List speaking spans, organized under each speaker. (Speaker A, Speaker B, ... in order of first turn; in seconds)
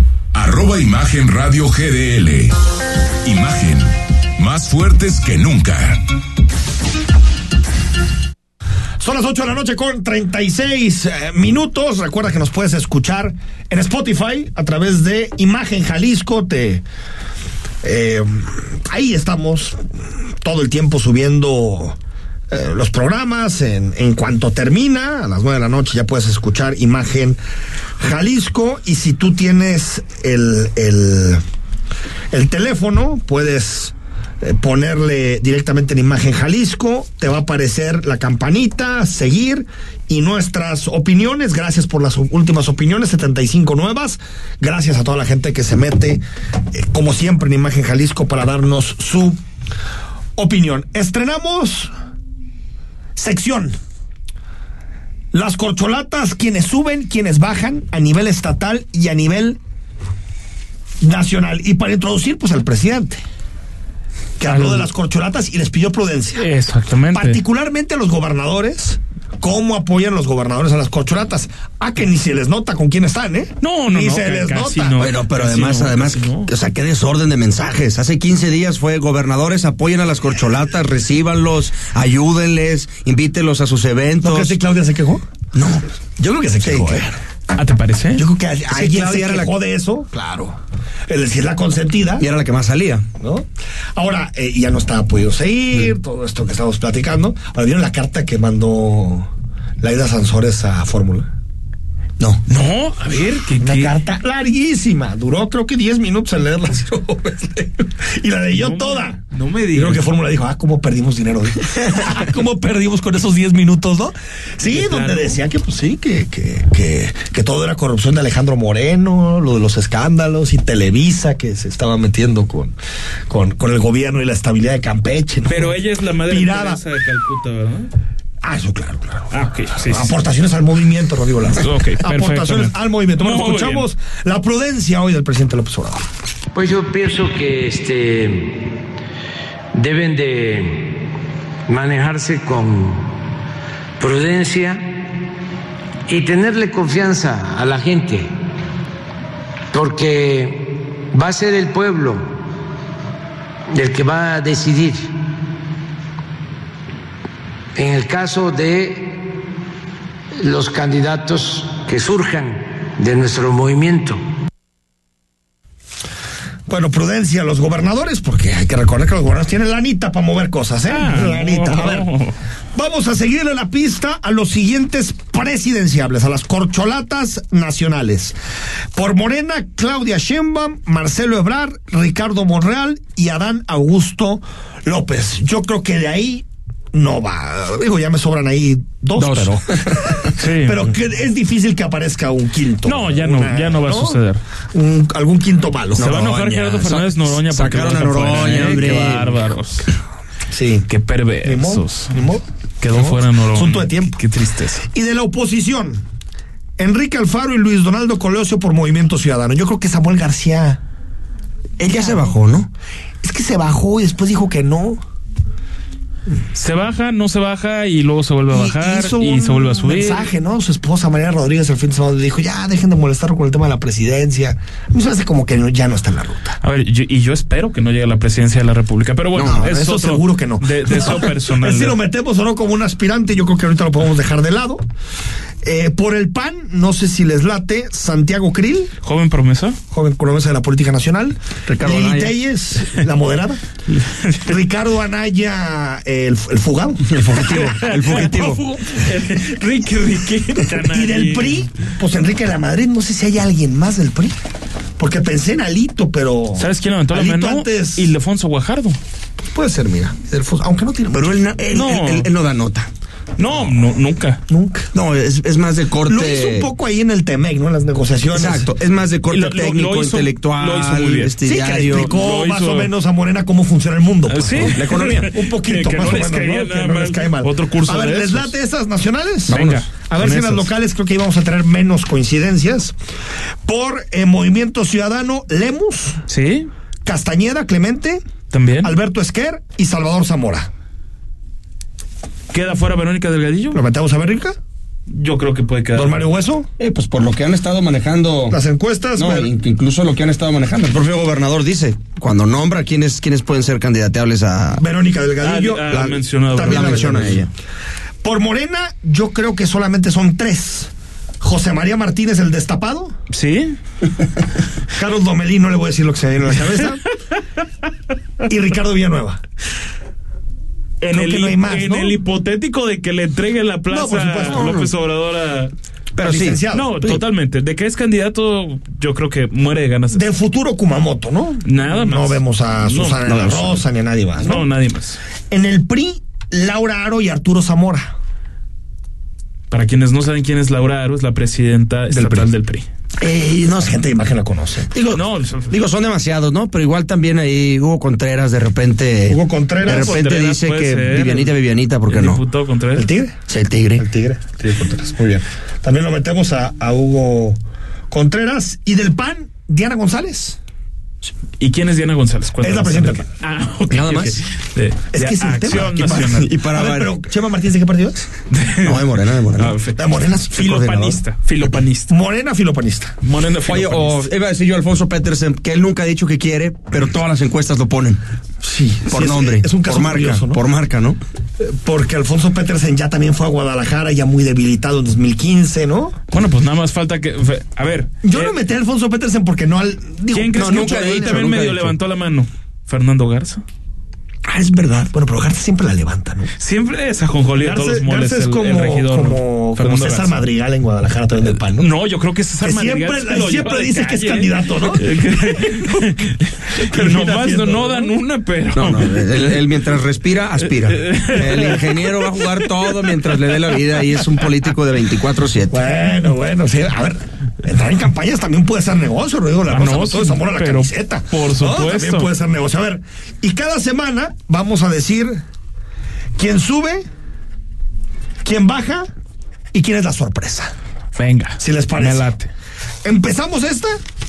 Speaker A: 0.3-2.6, 3.2-6.0
Speaker B: 9.0-16.8, 17.8-19.8, 20.4-22.0, 22.5-27.4, 28.0-31.4, 32.3-46.2, 46.7-49.4, 50.4-51.9, 53.2-53.8, 55.3-59.6, 61.0-63.2, 64.4-66.5, 67.1-75.1, 84.2-85.2, 86.2-87.2, 88.2-90.5, 91.1-92.3, 93.2-93.5, 94.0-99.3, 99.8-101.3, 103.5-122.8, 123.3-126.8, 128.4-136.1, 166.7-172.1, 172.8-178.4, 178.9-196.2, 200.5-200.9, 201.4-206.0, 206.8-210.8, 213.2-215.0, 218.5-226.6, 229.4-234.8, 235.6-238.9, 239.9-243.6, 244.3-249.5, 250.5-254.4, 255.0-258.2, 259.5-261.4, 264.5-264.9, 266.1-268.7, 271.4-282.9, 283.7-286.2, 287.1-290.7, 293.7-294.6, 295.9-296.7, 298.5-299.5, 304.7-307.5, 308.2-313.1, 314.9-317.1, 318.4-319.4, 321.0-322.2, 323.9-324.9, 326.2-327.0, 330.1-334.7, 335.5-338.1, 342.1-342.5, 343.7-344.9, 349.3-350.4, 352.9-353.4, 354.0-357.6, 358.1-360.6, 362.6-363.3, 365.1-368.3, 369.9-370.9, 372.1-373.2, 378.6-380.6, 381.6-386.1, 388.2-391.7, 394.5-396.5, 397.5-401.9, 402.6-405.2, 406.8-408.2, 415.7-425.4, 426.4-427.0, 428.4-429.1, 429.7-430.7, 431.6-432.3, 433.0-434.0
Speaker C: 64.5-64.9, 66.4-67.4, 73.6-76.5, 87.6-88.2, 102.5-103.9, 108.5-110.0, 114.7-115.4, 125.5-127.9, 129.3-130.2, 131.6-133.9, 170.9-172.4, 190.4-190.8, 192.8-194.4, 196.0-199.9, 200.9-202.2, 202.8-204.8, 216.9-220.3, 226.6-228.0, 228.7-232.0, 239.1-239.8, 248.8-251.6, 256.6-258.4, 261.8-262.3, 263.4-264.4, 269.3-270.2, 270.8-271.3, 272.0-272.9, 274.4-278.5, 279.5-280.7, 286.3-286.7, 292.6-292.9, 293.6-293.8, 295.7-296.2, 305.4-305.8, 306.5-307.0, 313.4-313.7, 321.2-325.7, 326.7-329.3, 331.7-333.3, 334.4-335.2, 340.1-342.9, 345.2-345.7, 350.1-351.5, 352.1-353.1, 361.6-366.4, 368.5-368.8, 369.6-370.0, 370.5-372.1, 373.2-374.2, 386.6-388.6, 390.3-393.6, 396.8-400.4, 401.5-409.2, 410.9-412.7, 419.7-422.3, 431.2-432.5
Speaker D: 75.0-84.6, 85.5-85.9, 86.6-87.0, 88.7-89.5, 92.2-93.0, 189.2-190.3, 196.0-199.6, 211.8-212.7, 229.3-229.7, 241.7-242.3, 247.1-248.7, 261.1-262.9, 264.9-266.7, 268.3-272.2, 274.6-275.3, 279.5-279.9, 296.8-298.6, 299.2-304.8, 305.9-307.5, 324.4-324.9, 326.1-327.2, 333.3-333.7, 343.2-343.9, 344.9-352.4, 353.5-354.1, 363.9-364.4, 366.1-367.1, 368.8-369.8, 370.6-371.2, 373.7-378.2, 379.1-381.2, 390.5-392.0, 408.7-415.8
Speaker E: 136.6-138.8, 139.8-141.0, 141.7-143.1, 144.0-144.9, 146.1-148.3, 149.7-152.3, 153.7-155.1, 157.8-159.2, 160.4-164.2